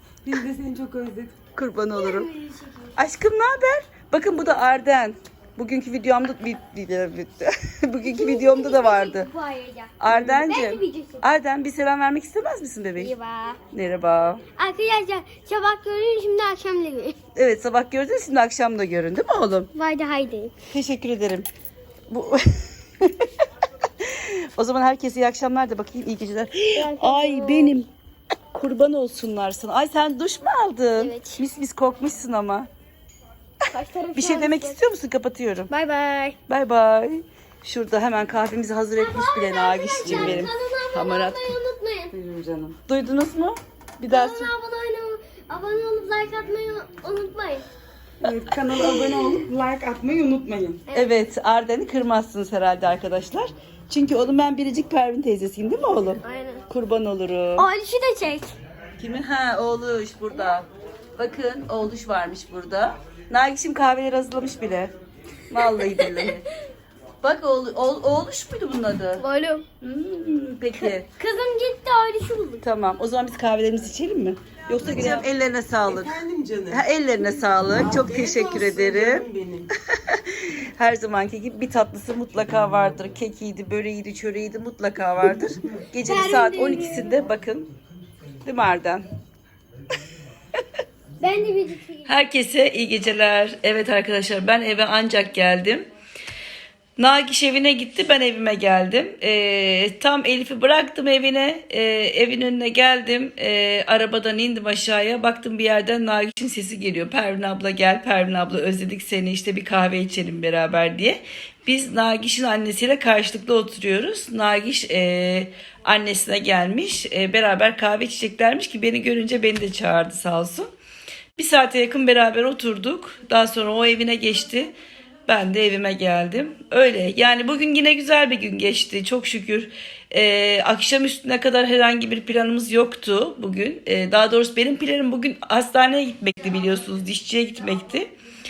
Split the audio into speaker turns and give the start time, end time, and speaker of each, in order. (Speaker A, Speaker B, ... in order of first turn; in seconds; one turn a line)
Speaker A: 0.2-1.4
Speaker B: 1.6-2.3
Speaker C: 1.9-2.9
Speaker B: 3.0-9.3
Speaker C: 8.0-11.2
Speaker B: 10.0-13.1
Speaker C: 13.0-13.6
Speaker B: 13.7-14.4
Speaker C: 14.6-17.2
Speaker B: 17.4-19.7
Speaker C: 19.8-20.5
Speaker B: 20.7-21.5
Speaker B: 22.1-23.3
Speaker B: 24.0-27.9
Speaker C: 26.8-27.8
Speaker B: 28.5-32.7
Speaker C: 31.0-31.4
Speaker C: 33.7-34.8
Speaker B: 34.1-35.7
Speaker C: 35.7-36.4
Speaker B: 36.5-41.5
Speaker C: 39.0-42.1
Speaker A: 40.1-40.4
Speaker B: 42.1-44.5
Speaker C: 44.1-47.6
Speaker A: 48.2-50.8
Speaker B: 48.7-49.4
Speaker B: 50.9-57.7
Speaker C: 56.2-56.6
Speaker C: 57.6-58.5
Speaker B: 59.0-64.9
Speaker B: 65.5-66.5
Speaker C: 65.8-66.3
Speaker B: 67.2-69.2
Speaker C: 69.2-69.7
Speaker B: 69.8-71.1
Speaker C: 70.8-72.6
Speaker B: 72.6-79.3
Speaker C: 74.9-75.2
Speaker D: 75.8-76.9
Speaker D: 77.6-79.7
Speaker B: 79.8-87.7
Speaker C: 86.0-87.2
Speaker B: 88.4-89.1
Speaker C: 91.2-92.1
Speaker B: 92.0-95.9
Speaker B: 97.0-120.7
Speaker B: 121.4-124.7
Speaker B: 125.3-138.1